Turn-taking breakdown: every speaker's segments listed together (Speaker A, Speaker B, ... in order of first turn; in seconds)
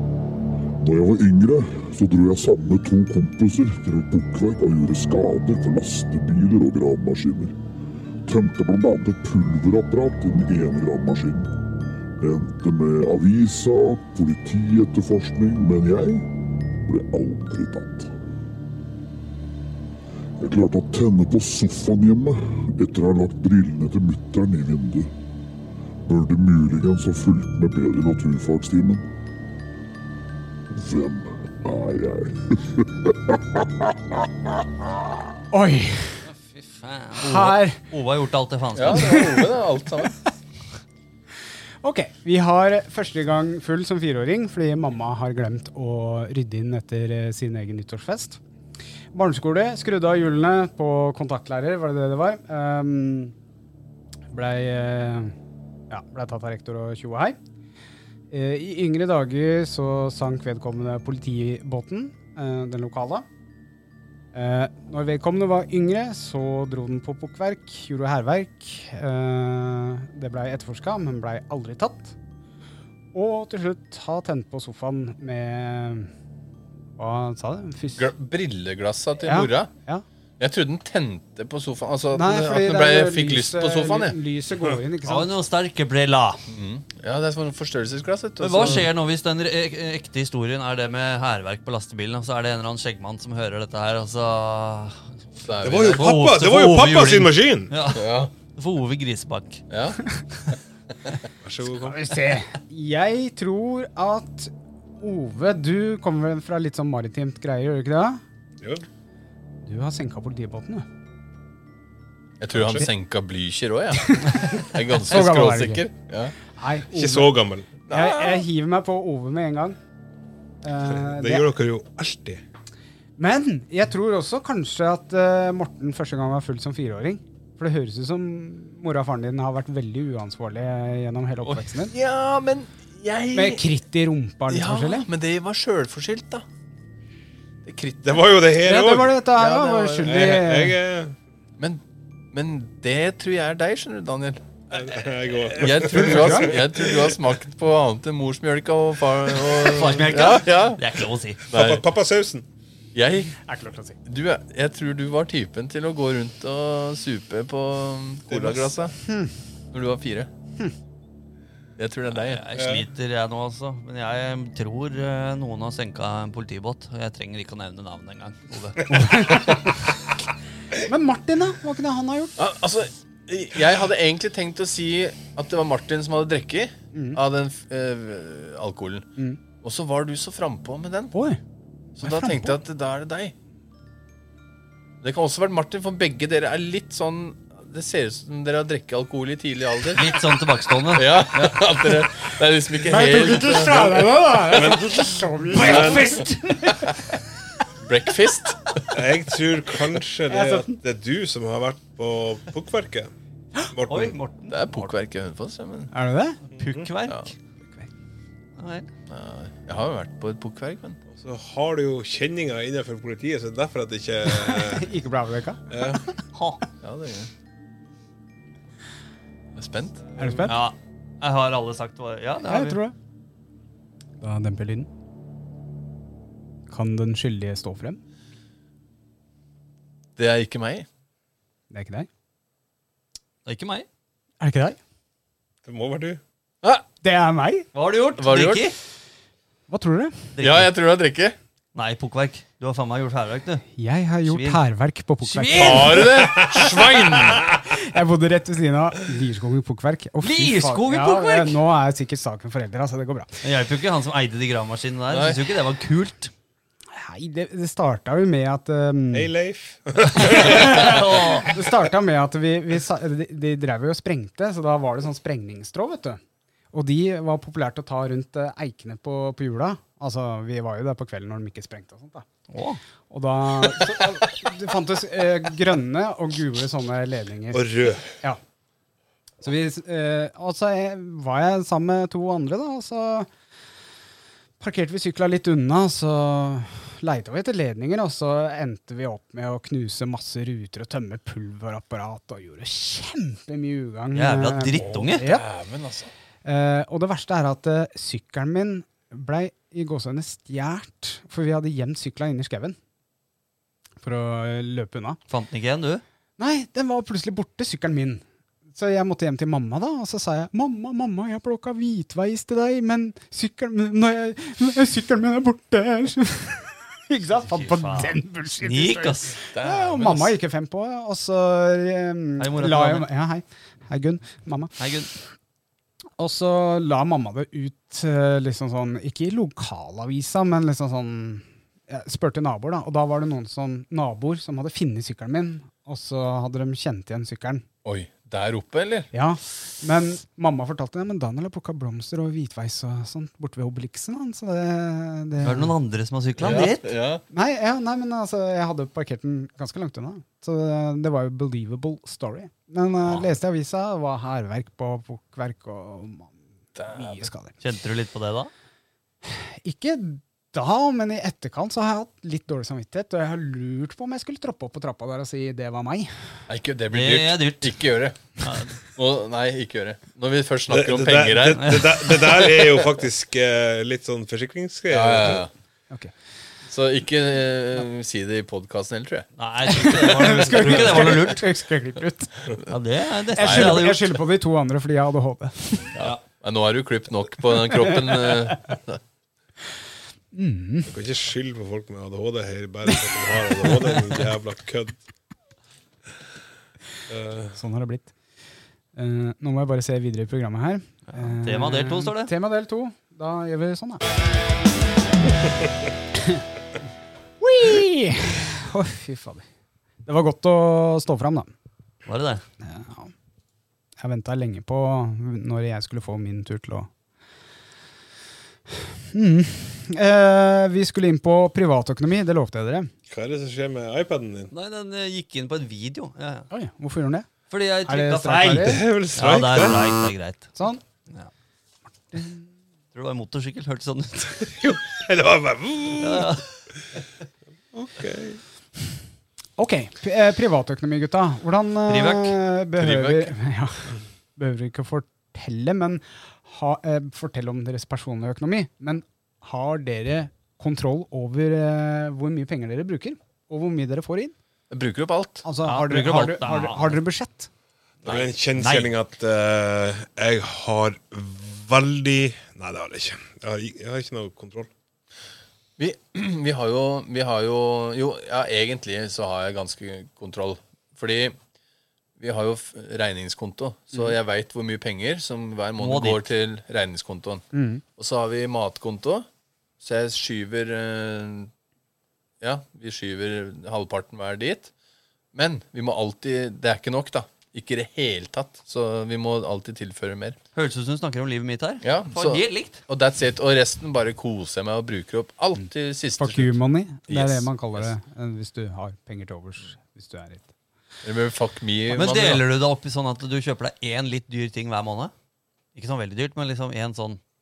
Speaker A: 0.8-7.6, 8.2-11.6, 12.2-18.1, 20.4-25.1, 26.0-29.1, 30.7-33.9
Speaker B: 35.5-36.2, 37.2-37.8, 39.0-39.4, 41.8-48.4, 49.1-53.4, 54.3-55.4, 55.9-57.4, 58.3-63.3, 64.3-72.2, 73.1-76.1, 77.0-78.1, 79.2-80.0, 82.1-85.3, 101.8-108.2, 109.6-110.9, 114.1-115.9, 116.5-117.4, 117.9-119.8, 120.6-121.5, 123.2-131.9, 133.3-135.1, 138.6-140.8, 145.9-146.5, 153.4-154.0, 159.0-159.3, 168.9-169.8, 170.9-172.4, 176.9-177.2, 181.1-181.4, 182.0-182.6, 192.9-197.0, 200.3-200.8, 205.9-206.4, 214.3-215.7, 220.2-220.6, 222.4-222.9, 224.2-224.9, 226.7-228.0, 231.7-232.1, 234.4-234.8, 237.0-237.7, 239.7-240.3, 243.8-246.1, 247.7-253.4, 256.9-259.3, 260.2-266.2, 266.7-272.3, 273.1-278.4, 279.4-283.3, 284.6-295.5, 296.4-302.8, 304.0-305.2, 306.4-308.2, 308.7-324.7, 326.2-337.6, 339.1-345.7, 347.3-356.4, 356.9-357.6, 359.2-366.1, 379.7-382.3, 383.4-385.9, 390.3-390.9, 397.6-398.1, 398.9-404.0, 406.2-406.4, 407.4-409.5, 410.0-411.5, 412.6-413.1, 414.0-416.9, 419.1-422.9, 426.5-427.3, 427.9-428.8, 430.6-430.8, 432.1-432.4, 439.6-454.4, 455.4-457.5, 477.5-477.8, 496.2-500.5
Speaker C: 36.3-39.5, 85.0-86.4, 88.4-95.1, 95.9-99.6, 149.5-151.4, 162.1-169.4, 189.9-191.7, 203.9-204.9, 206.6-207.3, 208.6-208.9, 216.3-216.6, 220.5-222.8, 233.5-233.9, 237.7-238.8, 240.4-240.7, 241.8-243.7, 244.3-244.6, 245.2-246.9, 250.2-251.6, 253.4-256.3, 260.3-261.5, 272.5-272.8, 294.1-295.3, 305.3-306.0, 317.5-319.4, 322.4-323.1, 324.8-325.1, 345.4-346.9, 357.6-358.5, 366.9-367.8, 368.4-368.7, 371.6-371.9, 379.4-381.5, 382.7-384.0, 401.1-402.3, 412.1-412.4, 424.5-426.5, 427.5-430.6, 432.9-434.5, 436.0-436.4, 441.9-442.4, 455.6-457.0, 475.8-476.3, 490.6-492.8, 501.9-505.1, 505.8-507.2
Speaker D: 38.8-40.1, 78.0-79.7, 80.4-84.2, 86.5-88.9, 95.4-96.1, 97.9-98.3, 99.7-100.6, 112.4-116.3, 117.9-118.4, 131.9-133.7, 134.5-136.4, 137.6-138.3, 139.3-140.3, 141.6-144.5, 145.5-150.8, 151.5-151.8, 152.9-153.4, 154.1-159.0, 159.7-160.3, 161.8-162.4, 172.4-179.1, 179.6-181.1, 182.0-183.3, 185.0-190.1, 190.9-194.0, 197.8-198.8, 204.5-205.9, 209.1-211.0, 216.8-217.3, 219.6-220.1, 230.2-230.9, 238.2-238.8, 240.4-241.4, 245.6-247.5, 255.1-255.4, 294.8-296.1, 319.5-320.4, 337.8-339.1, 346.4-347.2, 356.8-357.3, 366.5-372.8, 374.9-375.5, 376.7-379.3, 380.6-381.1, 383.4-383.9, 385.9-389.0, 442.8-443.3, 454.7-455.4, 465.8-471.4, 472.2-479.3, 479.8-481.5, 482.4-484.7, 485.3-490.4, 491.8-496.6, 497.1-497.9, 501.0-502.4
Speaker E: 95.6-97.7, 101.4-102.2, 112.5-112.9, 116.9-117.7, 120.9-122.4, 138.0-139.2, 140.0-141.2, 144.7-147.2, 151.5-152.5, 158.3-158.8, 162.5-162.9, 193.7-196.2, 198.9-203.1, 203.7-204.2, 206.5-206.9, 211.1-214.9, 215.7-216.1, 235.7-236.2, 259.1-261.4, 277.5-278.1, 370.7-375.5, 390.9-395.0, 397.1-397.6, 423.1-424.5, 428.6-430.0, 434.5-436.4, 437.7-438.4, 458.1-464.7